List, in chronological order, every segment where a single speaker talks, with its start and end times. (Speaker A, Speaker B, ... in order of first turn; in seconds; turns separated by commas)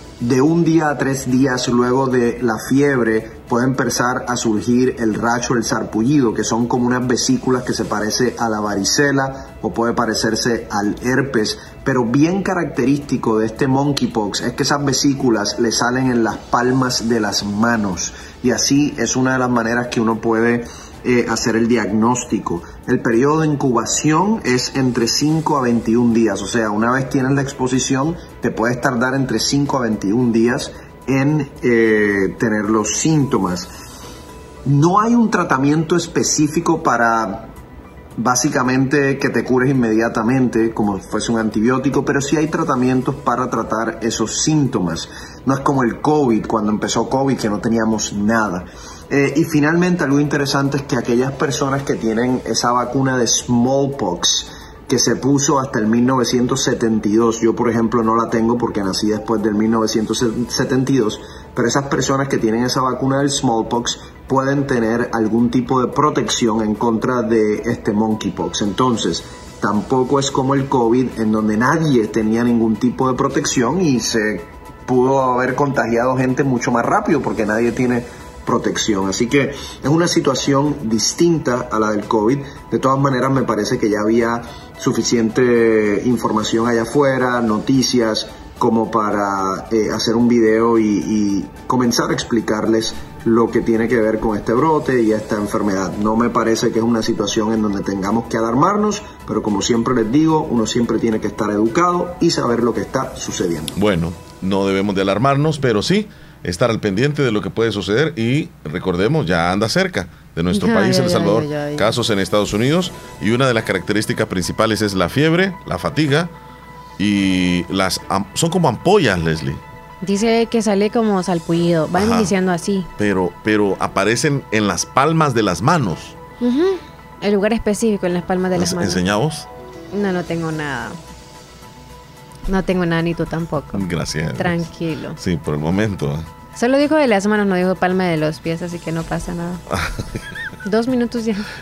Speaker A: 0.2-33.7, Speaker A: 34.6-37.5, Speaker A: 38.2-103.8, Speaker B: 103.8-116.3, Speaker C: 110.5-111.9, Speaker B: 117.0-119.6, Speaker C: 120.0-122.9, Speaker B: 121.9-122.3, Speaker B: 123.0-126.2, Speaker C: 126.4-129.0, Speaker B: 128.5-129.5, Speaker C: 129.9-131.0, Speaker C: 132.5-133.8, Speaker B: 133.7-136.3, Speaker C: 134.4-135.2, Speaker C: 136.6-139.6, Speaker B: 139.7-140.1, Speaker C: 140.7-141.4